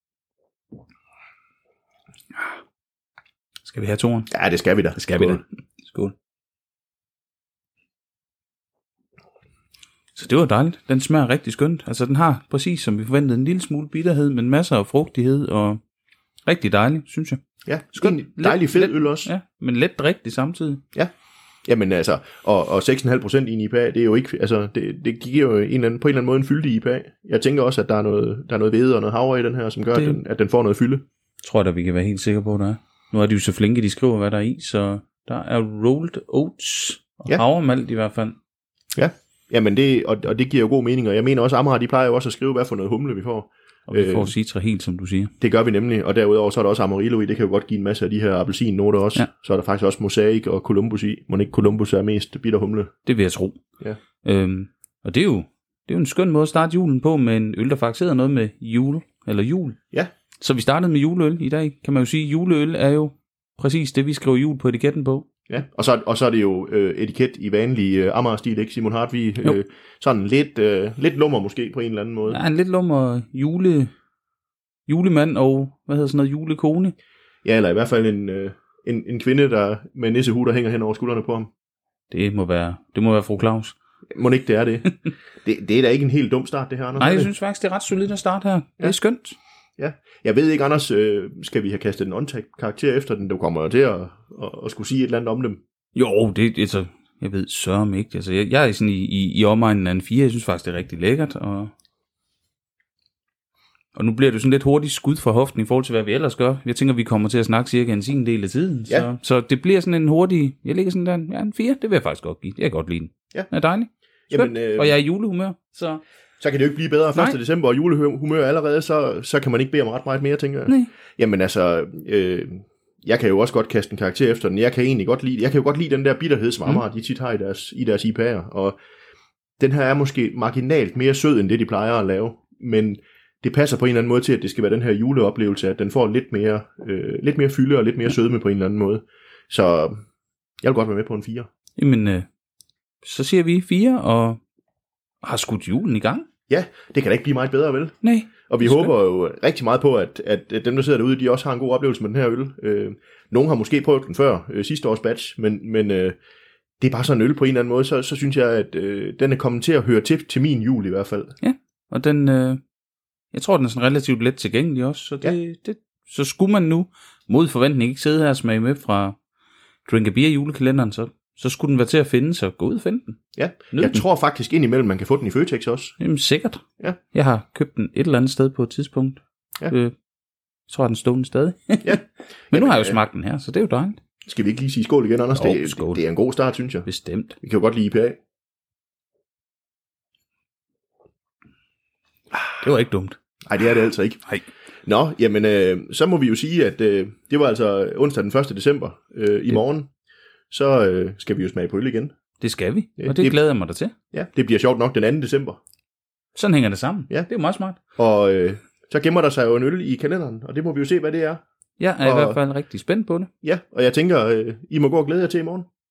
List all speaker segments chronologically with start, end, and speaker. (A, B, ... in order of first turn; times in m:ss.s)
0:03.6-0:04.3 A
0:04.3-0:05.4 B
0:04.9-0:06.1 A
0:10.1-0:15.8 A
0:16.4-0:17.4 A
0:17.6-0:19.3 B
0:17.9-0:20.8 A
0:21.6-0:31.0 B
0:31.4-0:38.4 A
0:38.9-0:44.3 B
0:43.9-0:45.3 A
0:45.4-0:52.9 B
0:53.0-0:53.6 A
0:54.2-0:59.8 A
1:00.4-1:05.2 A
1:05.5-1:12.4 B
1:12.3-1:13.9 A
1:14.9-1:16.9 A
1:17.4-1:21.5 B
1:22.1-1:23.7 A
1:24.1-1:27.3 B
1:27.0-1:29.4 A
1:29.8-1:35.6 B
1:35.9-1:41.7 A
1:43.9-1:56.0 A
1:54.3-1:55.0 B
1:56.4-2:08.8 B
2:09.6-2:20.0 B
2:20.6-2:21.5 B
2:21.8-2:22.2 A
2:23.0-2:24.4 A
2:25.2-2:26.2 A
2:26.5-2:28.0 B
2:28.0-2:28.9 A
2:28.5-2:36.2 B
2:36.8-2:41.3 B
2:41.4-2:42.6 A
2:43.3-2:49.2 A
2:49.8-2:53.2 A
2:53.3-2:56.0 B
2:53.7-2:54.0 A
2:56.0-2:59.9 A
3:00.7-3:04.0 A
3:01.8-3:03.0 B
3:04.2-3:06.9 B
3:05.3-3:06.0 A
3:06.8-3:07.4 A
3:07.4-3:08.2 B
3:12.6-3:13.2 A
3:13.5-3:14.2 B
3:14.8-3:19.9 B
3:20.5-3:22.1 B
3:22.4-3:23.9 A
3:23.0-3:23.4 B
3:24.1-3:25.6 B
3:26.4-3:27.8 A
3:28.0-3:31.4 B
3:31.8-3:33.3 A
3:32.0-3:32.4 B
3:33.4-3:35.7 B